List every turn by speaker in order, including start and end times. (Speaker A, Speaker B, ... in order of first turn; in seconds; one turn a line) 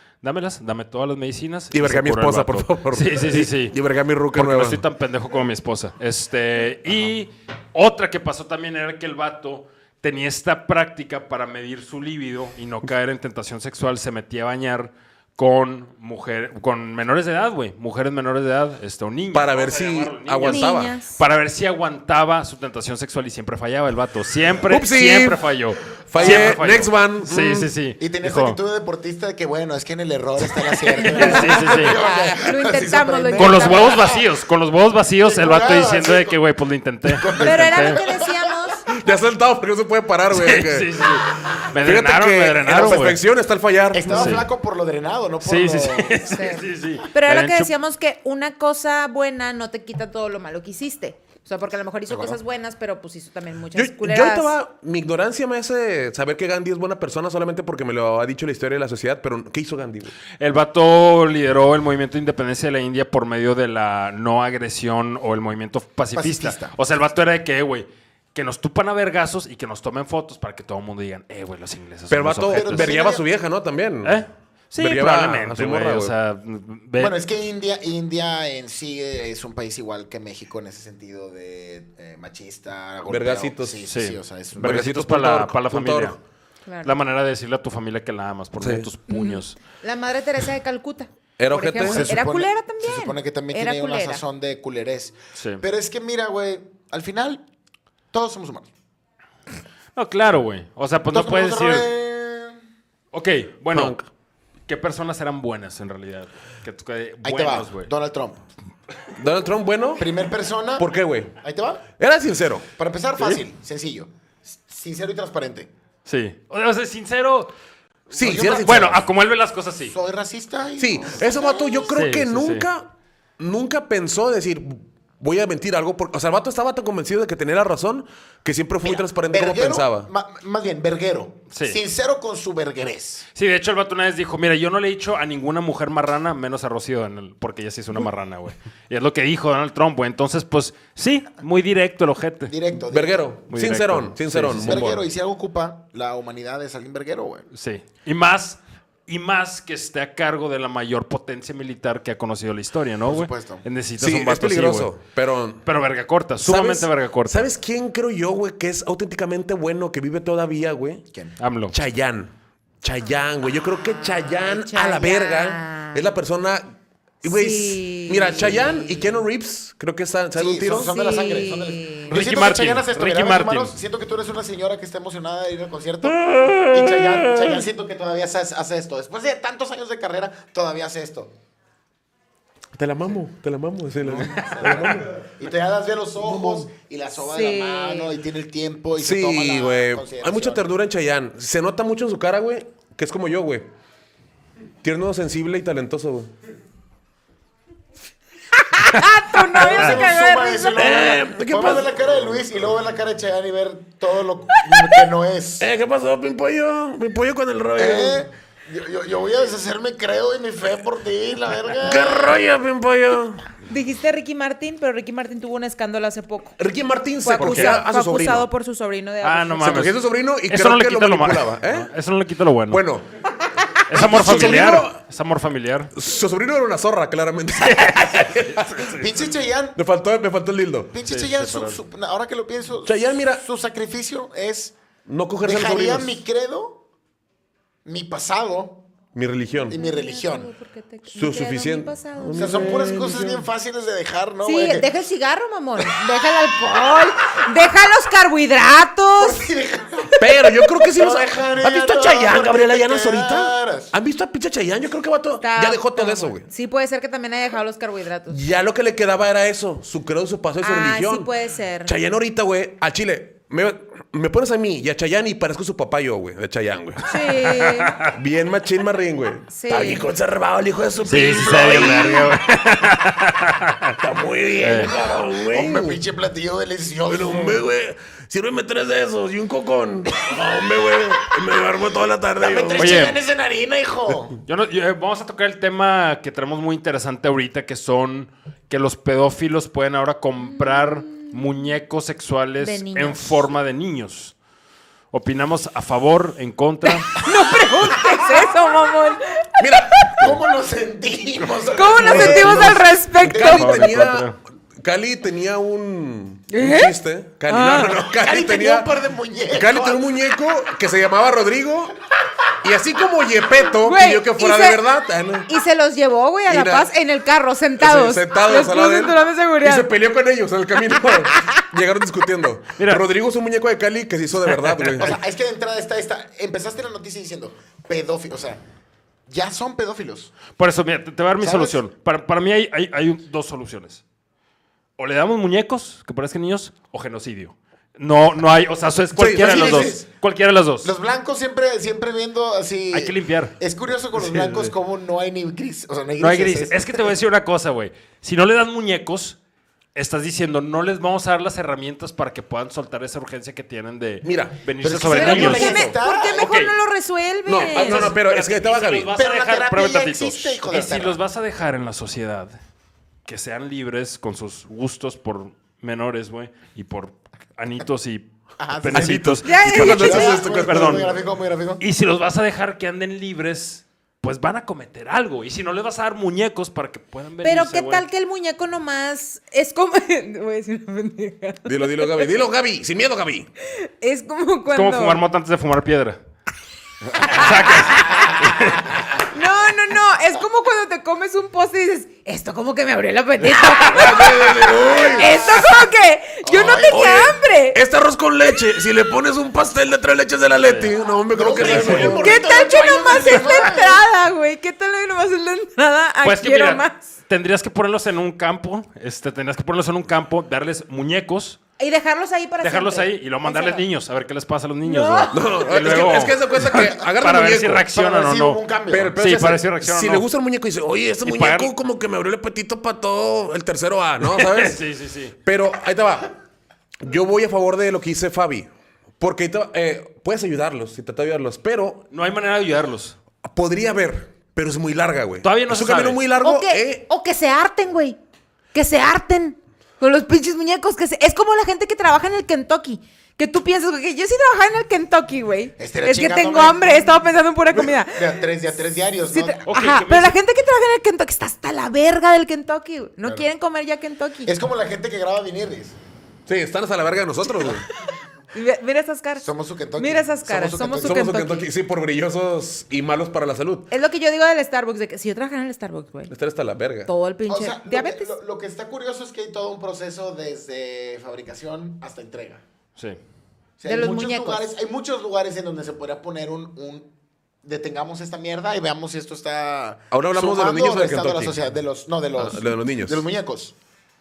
Speaker A: 0.2-3.8
Speaker B: 1.7-4.8
Speaker A: 4.3-28.6
Speaker B: 19.3-21.0
Speaker C: 20.4-21.1
Speaker B: 24.7-25.4
Speaker B: 25.9-27.7
Speaker D: 26.2-26.6
Speaker D: 28.0-34.3
Speaker C: 31.1-34.0
Speaker A: 31.1-32.0
Speaker A: 33.4-38.0
Speaker D: 35.2-36.4
Speaker D: 37.1-38.5
Speaker C: 37.4-38.8
Speaker B: 38.9-41.0
Speaker A: 40.3-43.2
Speaker B: 41.8-44.4
Speaker D: 43.9-46.4
Speaker A: 44.1-44.5
Speaker A: 45.4-47.7
Speaker C: 46.3-54.5
Speaker D: 52.1-52.4
Speaker B: 53.7-60.1
Speaker A: 60.4-73.0
Speaker D: 66.1-66.8
Speaker B: 72.1-74.2
Speaker D: 72.5-73.2
Speaker A: 74.0-77.1
Speaker B: 74.8-76.1
Speaker D: 77.0-84.9
Speaker B: 83.1-83.8
Speaker A: 83.9-86.2
Speaker B: 84.6-86.2
Speaker C: 86.7-86.9
Speaker A: 86.8-89.5
Speaker B: 88.6-88.9
Speaker C: 89.1-94.2
Speaker B: 91.4-92.0
Speaker D: 91.9-97.4
Speaker A: 95.3-95.6
Speaker D: 98.1-98.7
Speaker A: 100.0-101.9
Speaker D: 101.1-102.6
Speaker A: 103.1-104.0
Speaker B: 103.7-104.1
Speaker A: 104.7-107.9
Speaker D: 107.2-108.5
Speaker B: 109.2-110.1
Speaker D: 110.0-111.8
Speaker B: 110.8-111.3
Speaker B: 112.0-112.7
Speaker D: 112.8-115.7
Speaker A: 116.0-117.5
Speaker B: 118.1-119.0
Speaker D: 118.1-118.9
Speaker A: 118.3-120.0
Speaker D: 119.9-121.9
Speaker B: 120.8-130.1
Speaker A: 121.9-122.7
Speaker D: 128.8-133.3
Speaker A: 131.5-131.8
Speaker A: 133.3-142.5
Speaker D: 142.5-143.3
Speaker B: 142.9-145.0
Speaker A: 143.5-144.8
Speaker D: 144.6-147.4
Speaker A: 147.5-154.9
Speaker D: 153.1-153.6
Speaker B: 154.0-155.7
Speaker A: 155.6-157.5
Speaker B: 156.4-161.1
Speaker A: 161.4-161.7
Speaker B: 161.7-170.9
Speaker C: 163.9-166.1
Speaker C: 167.2-169.2
Speaker D: 170.3-181.3
Speaker C: 170.7-172.1
Speaker A: 172.1-173.8
Speaker B: 176.0-177.6
Speaker B: 182.7-185.2
Speaker A: 184.1-184.9
Speaker D: 184.4-190.7
Speaker B: 186.2-186.7
Speaker C: 187.2-188.1
Speaker B: 189.0-193.7
Speaker B: 194.8-196.3
Speaker C: 198.6-201.0
Speaker D: 199.5-205.7
Speaker B: 200.8-202.2
Speaker B: 205.6-208.3
Speaker D: 207.8-212.4
Speaker B: 211.8-213.4
Speaker C: 213.7-216.6
Speaker B: 216.6-218.5
Speaker C: 217.2-219.8
Speaker A: 217.4-217.8
Speaker A: 219.2-220.0
Speaker B: 219.6-221.9
Speaker A: 220.5-222.8
Speaker B: 222.7-223.1
Speaker A: 223.9-225.9
Speaker B: 223.9-225.0
Speaker B: 225.9-228.9
Speaker A: 227.6-229.1
Speaker D: 228.9-229.8
Speaker B: 229.8-230.9
Speaker D: 230.9-234.8
Speaker A: 231.1-231.8
Speaker B: 232.8-233.4
Speaker B: 235.1-236.2
Speaker D: 235.4-236.8
Speaker D: 237.8-238.8
Speaker B: 239.1-239.8
Speaker D: 239.7-240.5
Speaker C: 239.7-242.8
Speaker B: 241.1-243.4
Speaker D: 242.3-244.9
Speaker C: 244.4-249.5
Speaker D: 249.2-253.9
Speaker B: 250.2-256.4
Speaker C: 255.4-258.4
Speaker B: 258.3-261.3
Speaker C: 260.6-261.9
Speaker B: 261.9-267.1
Speaker C: 267.0-267.9
Speaker A: 267.4-268.1
Speaker B: 268.1-272.4
Speaker C: 269.5-270.1
Speaker A: 271.1-273.9
Speaker B: 274.0-276.0
Speaker A: 274.6-274.9
Speaker D: 275.4-277.6
Speaker B: 277.1-283.2
Speaker D: 282.4-284.4
Speaker A: 282.8-283.2
Speaker A: 284.4-294.3
Speaker C: 290.6-291.4
Speaker C: 292.6-293.5
Speaker A: 295.1-297.2
Speaker C: 297.1-300.0
Speaker B: 299.6-300.4
Speaker D: 300.2-302.8
Speaker C: 301.7-304.0
Speaker B: 302.0-308.9
Speaker A: 303.3-304.4
Speaker C: 306.5-306.9
Speaker C: 307.5-308.0
Speaker D: 308.0-310.2
Speaker B: 309.5-311.9
Speaker B: 312.6-315.5
Speaker C: 313.6-314.8
Speaker C: 315.5-319.9
Speaker B: 316.5-316.9
Speaker B: 317.8-325.2
Speaker C: 320.8-321.6
Speaker A: 322.8-323.0
Speaker A: 324.5-325.1
Speaker D: 325.0-328.6
Speaker D: 329.3-330.3
Speaker A: 330.6-334.0
Speaker D: 331.4-331.8
Speaker A: 335.0-340.9
Speaker B: 339.1-340.0
Speaker D: 339.4-340.1
Speaker D: 340.8-347.1
Speaker A: 342.9-343.6
Speaker A: 344.1-344.7
Speaker A: 346.2-349.4
Speaker A: 349.9-356.7
Speaker B: 354.2-354.6
Speaker D: 354.8-356.5
Speaker C: 355.1-358.2
Speaker B: 357.4-359.1
Speaker A: 357.7-362.6
Speaker D: 359.1-361.2
Speaker A: 363.3-371.1
Speaker D: 368.6-371.8
Speaker B: 368.9-371.1
Speaker C: 369.4-370.6
Speaker A: 371.8-378.0
Speaker C: 377.4-382.3
Speaker B: 381.7-383.5
Speaker C: 383.7-385.2
Speaker A: 384.7-386.2
Speaker A: 387.2-388.8
Speaker C: 387.7-388.3
Speaker D: 387.9-389.1
Speaker C: 389.3-397.8
Speaker B: 393.5-395.7
Speaker D: 394.6-395.7
Speaker D: 396.4-397.1
Speaker B: 396.9-403.7
Speaker A: 400.6-400.9
Speaker D: 401.3-404.0
Speaker A: 401.5-402.1
Speaker C: 401.9-407.1
Speaker A: 406.2-411.6
Speaker C: 411.8-413.9
Speaker A: 412.6-418.6
Speaker C: 414.8-415.6
Speaker B: 415.3-417.9
Speaker D: 417.9-419.2
Speaker B: 418.9-424.8
Speaker A: 419.2-420.3
Speaker A: 421.2-421.7
Speaker A: 424.2-425.4
Speaker B: 425.4-426.4
Speaker B: 427.0-432.1
Speaker A: 432.1-433.2
Speaker B: 433.4-437.0
Speaker A: 435.4-436.2
Speaker C: 436.4-438.2
Speaker C: 438.7-448.5
Speaker D: 445.8-447.2
Speaker D: 447.7-449.7
Speaker C: 449.2-454.5
Speaker A: 449.7-450.4
Speaker D: 453.2-453.5
Speaker D: 454.4-456.0
Speaker B: 456.5-457.9
Speaker C: 457.6-461.7
Speaker D: 459.4-461.3
Speaker B: 461.0-463.9
Speaker C: 463.9-466.3
Speaker B: 466.3-467.1
Speaker C: 467.1-468.3
Speaker D: 467.5-472.6
Speaker D: 473.8-477.1
Speaker C: 473.8-474.6
Speaker D: 477.6-483.7
Speaker B: 480.1-481.6
Speaker B: 482.4-483.2